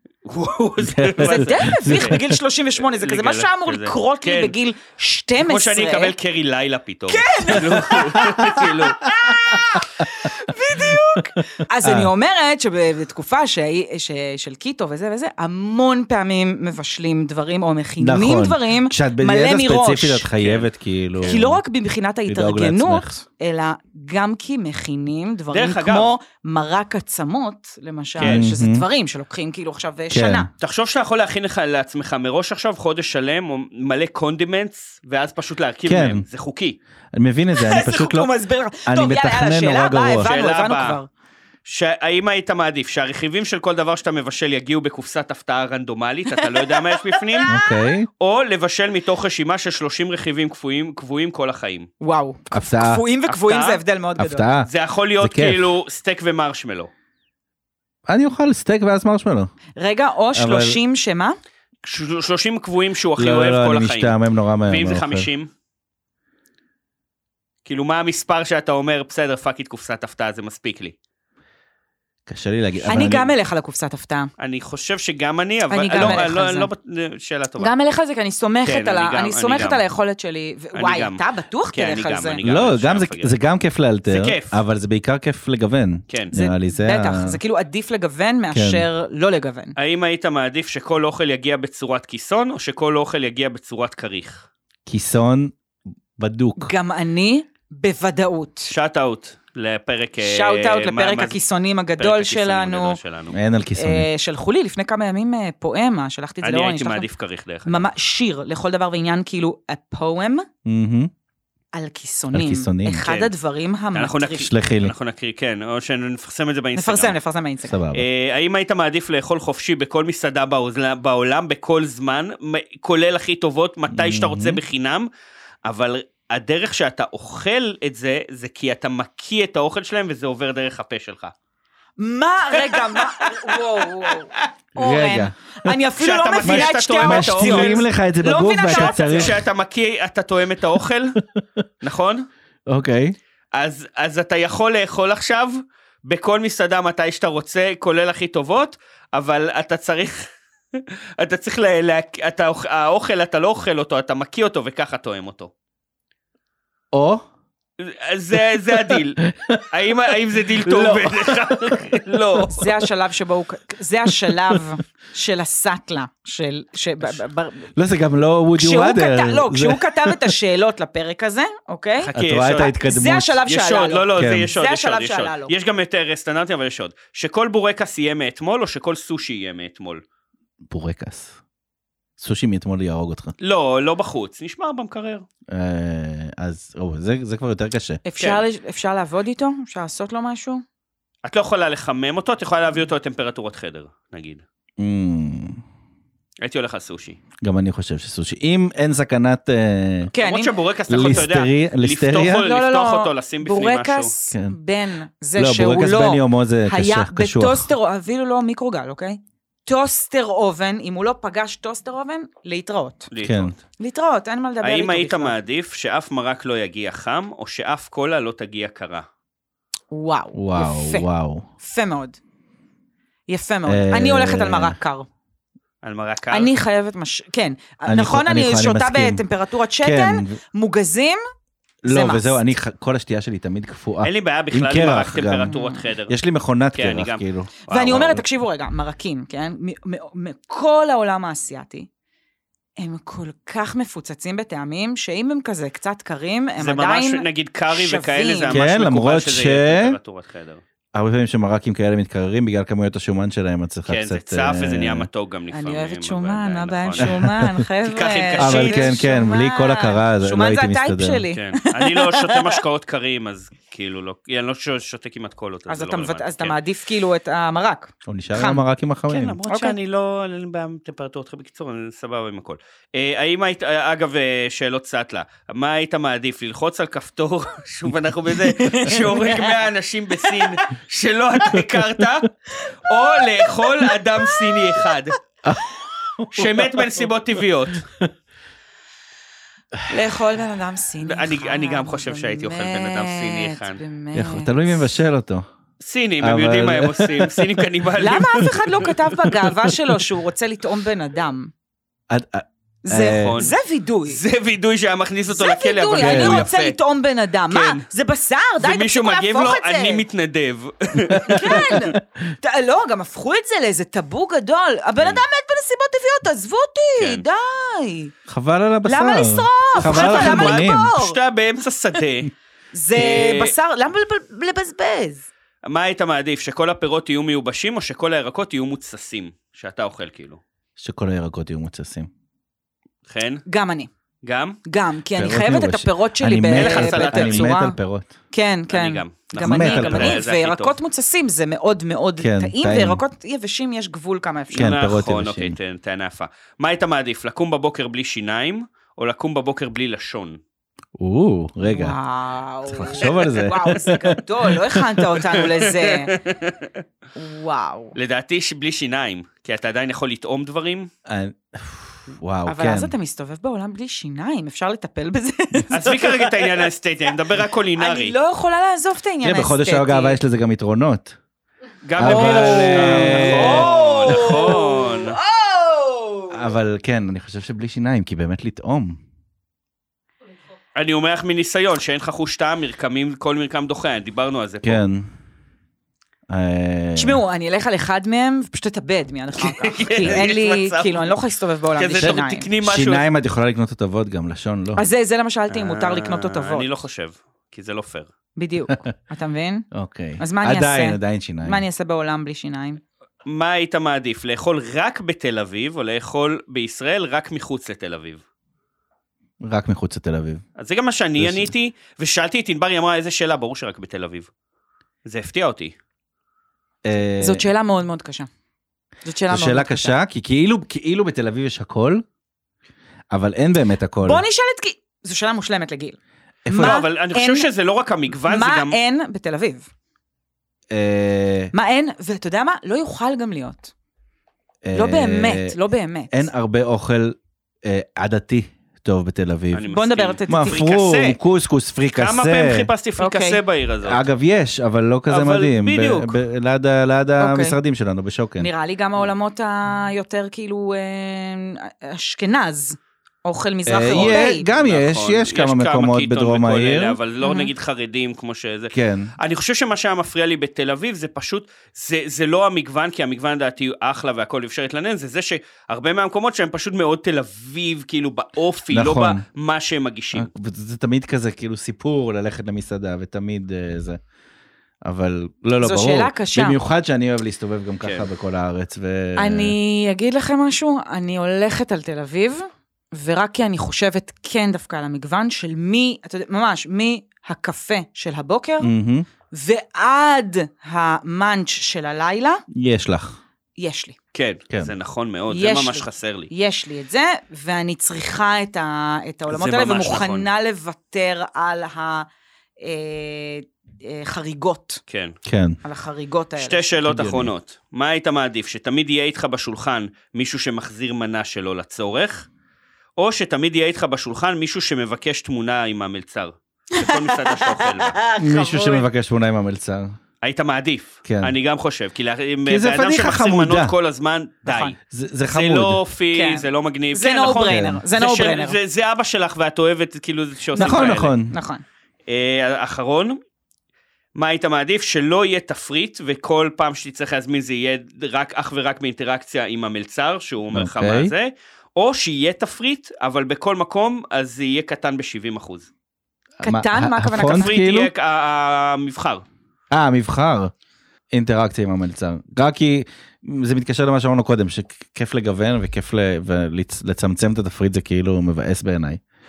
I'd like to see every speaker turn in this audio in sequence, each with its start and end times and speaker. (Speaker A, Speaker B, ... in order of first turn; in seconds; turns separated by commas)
Speaker A: 0.2-2.2, Speaker B: 0.8-2.4, Speaker C: 1.2-6.1, Speaker A: 2.8-4.5, Speaker A: 5.4-9.1, Speaker C: 7.1-20.3, Speaker B: 9.6-10.2, Speaker B: 10.9-12.1, Speaker B: 18.0-21.6, Speaker A: 20.4-20.7, Speaker C: 21.2-30.5, Speaker B: 22.3-23.1, Speaker A: 25.5-26.1, Speaker A: 28.2-28.5, Speaker B: 28.2-28.8, Speaker B: 30.1-30.5, Speaker A: 30.6-36.8, Speaker B: 35.9-36.2, Speaker B: 37.1-38.3, Speaker C: 37.5-41.1, Speaker B: 38.9-40.3, Speaker A: 40.2-41.0, Speaker A: 41.6-47.6, Speaker C: 46.4-47.9, Speaker B: 47.5-48.1, Speaker A: 48.2-51.9, Speaker C: 52.0-54.4, Speaker B: 52.5-53.0, Speaker A: 53.3-53.8, Speaker B: 54.2-55.6, Speaker A: 54.6-56.9, Speaker B: 58.1-59.5, Speaker C: 59.8-61.4, Speaker B: 60.3-60.8, Speaker A: 61.8-64.2, Speaker B: 63.2-65.3, Speaker A: 64.7-65.5, Speaker A: 67.6-71.0, Speaker B: 72.3-73.3, Speaker C: 72.9-74.3, Speaker A: 74.4-77.7, Speaker C: 75.7-76.7, Speaker C: 77.6-82.4, Speaker A: 78.6-79.8, Speaker A: 80.7-81.2, Speaker A: 81.7-83.3, Speaker B: 82.4-87.4, Speaker A: 84.1-84.6, Speaker C: 86.3-89.8, Speaker B: 88.5-88.9, Speaker A: 89.8-94.5, Speaker B: 94.8-95.5, Speaker B: 96.2-96.7, Speaker C: 96.6-98.7, Speaker A: 98.7-101.4, Speaker C: 100.2-103.0, Speaker A: 102.0-103.4, Speaker B: 103.3-104.1, Speaker C: 103.8-107.1, Speaker A: 106.4-107.9, Speaker C: 107.7-110.5, Speaker B: 110.6-111.1, Speaker C: 111.7-114.5, Speaker B: 112.3-113.1, Speaker A: 113.0-113.3, Speaker A: 113.9-117.2, Speaker B: 114.4-114.9, Speaker C: 116.8-117.8, Speaker B: 117.7-118.0, Speaker A: 117.9-125.1, Speaker B: 123.9-124.6, Speaker A: 125.6-131.3, Speaker C: 132.0-139.3, Speaker A: 132.7-133.3, Speaker B: 134.8-135.7, Speaker A: 136.0-137.8, Speaker B: 136.4-139.3, Speaker A: 138.7-141.2, Speaker B: 141.2-141.6, Speaker A: 141.8-142.3, Speaker B: 142.7-143.2, Speaker A: 143.5-155.5, Speaker B: 156.9-157.2, Speaker A: 157.8-162.6, Speaker B: 159.2-159.7, Speaker B: 160.6-162.8, Speaker C: 162.5-167.7, Speaker B: 164.1-164.6, Speaker B: 167.8-170.3, Speaker C: 168.6-175.5, Speaker A: 172.0-172.7, Speaker B: 172.2-173.4, Speaker A: 173.5-180.0, Speaker B: 174.2-174.5, Speaker B: 180.7-181.3, Speaker B: 182.2-183.3, Speaker A: 183.4-185.2, Speaker B: 185.5-188.0, Speaker C: 188.0-190.6, Speaker A: 191.2-194.4, Speaker B: 194.8-195.6, Speaker A: 196.4-197.2, Speaker B: 197.4-200.1, Speaker C: 200.1-200.5, Speaker A: 200.2-204.1, Speaker B: 200.9-202.4, Speaker C: 202.2-213.1, Speaker B: 205.3-207.7, Speaker A: 213.1-213.6, Speaker B: 213.2-213.5, Speaker C: 213.8-215.3, Speaker A: 214.6-219.1, Speaker C: 219.9-221.1, Speaker B: 220.3-221.5, Speaker C: 221.6-222.2, Speaker C: 223.3-225.1, Speaker B: 223.7-224.8, Speaker A: 225.8-226.5, Speaker C: 226.3-231.2, Speaker B: 227.9-229.2, Speaker B: 229.8-230.3, Speaker B: 231.8-235.6, Speaker C: 231.8-232.4, Speaker A: 234.0-236.2, Speaker C: 235.5-235.8, Speaker B: 236.1-237.5, Speaker A: 236.7-238.2, Speaker C: 237.7-241.9, Speaker C: 242.8-248.6, Speaker A: 246.6-250.6, Speaker B: 248.5-250.0, Speaker B: 250.9-255.1, Speaker A: 253.8-257.1, Speaker C: 255.5-262.6, Speaker B: 257.0-257.6, Speaker A: 257.8-259.0, Speaker B: 258.4-261.2, Speaker A: 261.3-266.6, Speaker C: 265.7-268.6, Speaker B: 268.0-269.4, Speaker A: 269.1-282.3, Speaker C: 269.5-269.8, Speaker C: 278.6-279.3, Speaker A: 282.9-285.2, Speaker B: 286.2-286.6, Speaker A: 286.3-287.9, Speaker C: 289.9-294.9, Speaker A: 291.1-293.8, Speaker B: 294.1-295.4, Speaker A: 295.8-299.2, Speaker B: 296.2-297.5, Speaker C: 298.0-301.5, Speaker B: 302.1-303.3, Speaker C: 302.8-304.2, Speaker A: 303.1-303.5, Speaker A: 304.1-306.8, Speaker C: 305.3-310.0, Speaker B: 306.0-306.5, Speaker A: 307.5-307.8, Speaker A: 308.6-311.8, Speaker C: 311.1-318.1, Speaker B: 311.3-311.8, Speaker A: 317.0-317.2, Speaker B: 318.3-320.9, Speaker C: 318.9-321.2, Speaker A: 319.7-322.3, Speaker C: 322.7-325.2, Speaker A: 322.9-323.5, Speaker A: 325.6-330.4, Speaker B: 330.8-332.1, Speaker A: 333.1-333.4, Speaker C: 333.5-333.9, Speaker A: 334.2-334.6, Speaker C: 334.6-337.8, Speaker B: 335.1-338.1, Speaker A: 336.5-337.5, Speaker C: 338.3-344.7, Speaker A: 338.7-340.8, Speaker B: 339.4-340.2, Speaker B: 342.2-343.0, Speaker A: 344.5-350.4, Speaker B: 344.5-345.6, Speaker B: 351.0-351.9, Speaker C: 351.6-356.2, Speaker B: 352.7-355.0, Speaker A: 355.6-356.8, Speaker C: 357.1-357.9, Speaker A: 357.9-360.9, Speaker B: 361.1-362.9, Speaker C: 362.4-366.7, Speaker A: 365.7-368.1, Speaker C: 367.8-370.2, Speaker B: 369.2-371.1, Speaker A: 371.8-375.2, Speaker B: 372.0-374.4, Speaker C: 372.0-376.4, Speaker B: 376.3-379.0, Speaker A: 380.7-384.8, Speaker B: 384.6-385.1, Speaker B: 386.3-387.2, Speaker C: 386.9-392.5, Speaker A: 389.4-391.1, Speaker A: 391.8-393.0, Speaker B: 392.0-394.8, Speaker C: 394.8-396.8, Speaker A: 395.5-398.1, Speaker C: 398.4-399.7, Speaker B: 399.7-401.6, Speaker C: 400.2-402.8, Speaker A: 403.2-408.2, Speaker B: 409.4-410.4, Speaker A: 410.6-414.3, Speaker B: 411.2-411.5, Speaker A: 415.0-415.7, Speaker B: 416.8-417.4, Speaker C: 417.2-418.3, Speaker C: 419.0-419.9, Speaker B: 419.3-422.0, Speaker B: 423.1-424.2, Speaker C: 424.0-425.9, Speaker B: 426.4-426.8, Speaker C: 426.5-427.5, Speaker A: 426.6-428.8, Speaker C: 428.1-429.7, Speaker B: 430.7-431.5, Speaker C: 431.5-433.7, Speaker B: 434.6-435.5, Speaker C: 434.7-436.3, Speaker B: 436.1-439.7, Speaker A: 439.5-441.2, Speaker C: 439.7-440.7, Speaker B: 440.3-442.7, Speaker A: 441.9-444.0, Speaker C: 443.0-443.4, Speaker B: 443.9-448.5, Speaker A: 445.1-446.2, Speaker C: 447.2-447.6, Speaker C: 448.4-454.5, Speaker B: 453.6-457.0, Speaker A: 453.9-470.3, Speaker C: 457.2-457.5, Speaker B: 458.7-459.1, Speaker B: 468.7-469.2, Speaker B: 470.1-474.0, Speaker B: 474.8-479.5, Speaker C: 475.6-476.6, Speaker A: 477.8-478.1, Speaker C: 479.2-488.7, Speaker B: 488.6-489.1, Speaker C: 489.3-492.4, Speaker B: 492.5-493.2, Speaker C: 493.6-493.9, Speaker A: 494.1-496.3, Speaker C: 495.3-502.1, Speaker A: 499.3-500.3, Speaker C: 502.6-504.8, Speaker A: 504.9-505.1, Speaker B: 505.2-505.6, Speaker C: 505.6-506.8, Speaker A: 506.4-512.3, Speaker B: 506.9-507.3, Speaker A: 513.0-518.0, Speaker C: 516.8-518.9, Speaker B: 518.2-519.9, Speaker A: 520.2-524.7, Speaker B: 521.0-521.3, Speaker B: 522.5-523.8, Speaker C: 524.4-524.7, Speaker B: 524.9-525.8, Speaker A: 525.3-531.1, Speaker C: 526.1-528.6, Speaker B: 527.5-527.8, Speaker C: 530.5-531.6, Speaker B: 530.5-531.3, Speaker A: 532.1-533.2, Speaker A: 534.1-545.7, Speaker B: 540.5-541.1, Speaker B: 546.4-547.9, Speaker C: 546.4-547.9, Speaker A: 547.3-549.2, Speaker B: 549.7-550.5, Speaker B: 551.1-559.0